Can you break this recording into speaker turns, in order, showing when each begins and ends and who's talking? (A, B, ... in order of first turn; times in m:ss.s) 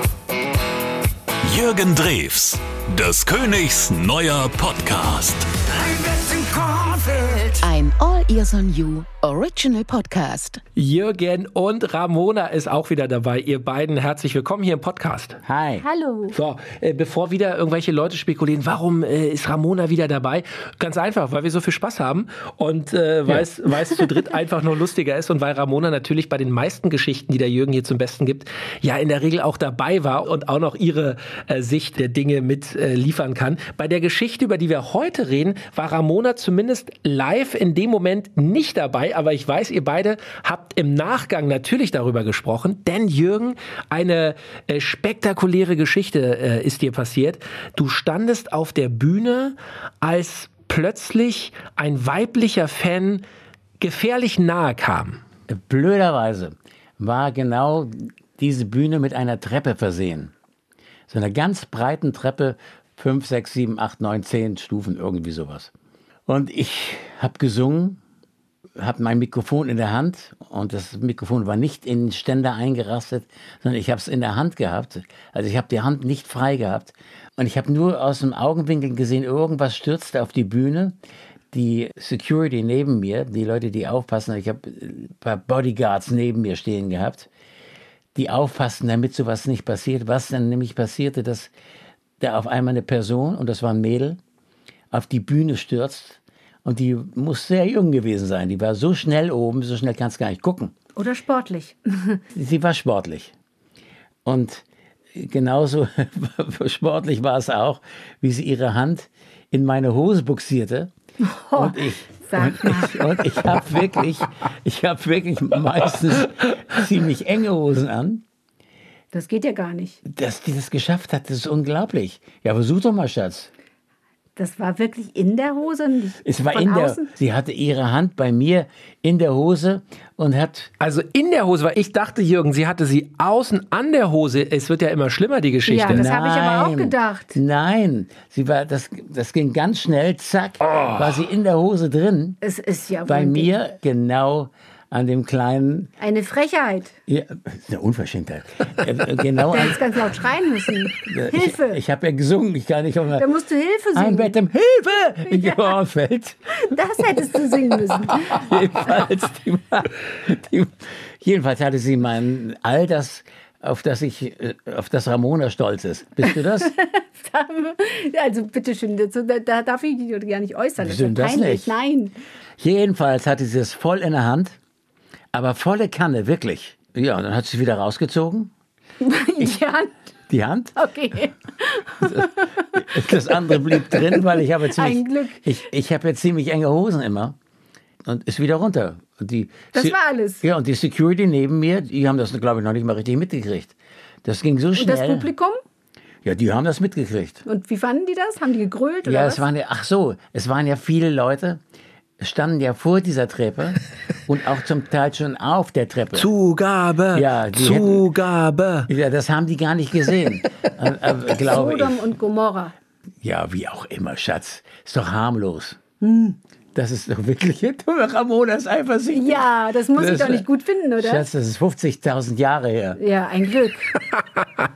0:01.4-0:05.5 A
0:07.6-0:10.6 B
0:10.8-0:15.4 C
0:15.4-0:15.8 D
0:15.8-0:16.4 E
0:16.3-0:53.2 C
0:53.8-0:55.2 C
0:55.5-1:00.3 D
1:01.1-1:05.7 D
1:06.3-1:08.0 D
1:08.8-1:21.0 D
1:21.5-1:27.3 D
1:28.1-1:31.5 D
1:32.2-1:34.2 D
1:34.9-1:40.7 D
1:41.0-1:42.2 E
1:42.3-1:43.3 D
1:44.2-1:50.9 D
1:51.2-1:53.0 E
1:51.5-1:58.2 D
1:59.1-2:00.0 E
2:00.0-2:03.5 D
2:04.4-2:07.1 E
2:06.2-2:10.7 D
2:10.8-2:16.0 C
2:15.7-2:17.3 E
2:15.9-2:22.4 D
2:22.4-2:23.5 E
2:23.0-2:25.9 D
2:26.0-2:26.9 E
2:27.1-2:29.8 D
2:29.5-2:31.8 E
2:31.0-2:33.3 D
2:33.2-2:34.4 E
2:33.9-2:36.4 D
2:35.3-2:35.7 E
2:36.6-2:38.5 E
2:38.1-2:46.7 D
2:46.2-2:52.1 E
2:50.8-2:51.7 D
2:52.6-2:54.6 D
2:55.3-2:58.5 D
2:59.0-2:59.9 E
3:00.3-3:00.8 D
3:00.8-3:02.6 E
3:02.0-3:07.3 D
3:03.8-3:05.4 E
3:08.0-3:15.3 D
3:09.7-3:10.4 E
3:14.8-3:15.6 E
3:16.2-3:17.4 D
3:17.4-3:19.4 E
3:19.0-3:21.6 D
3:22.2-3:26.3 D
3:26.1-3:28.9 C
3:27.1-3:28.1 D
3:28.9-3:32.1 D
3:31.4-3:32.7 E
3:33.2-3:35.8 D
3:36.0-3:36.4 E
3:36.7-3:40.4 D
3:39.1-3:41.2 E
3:41.0-3:43.0 D
3:43.0-3:43.9 E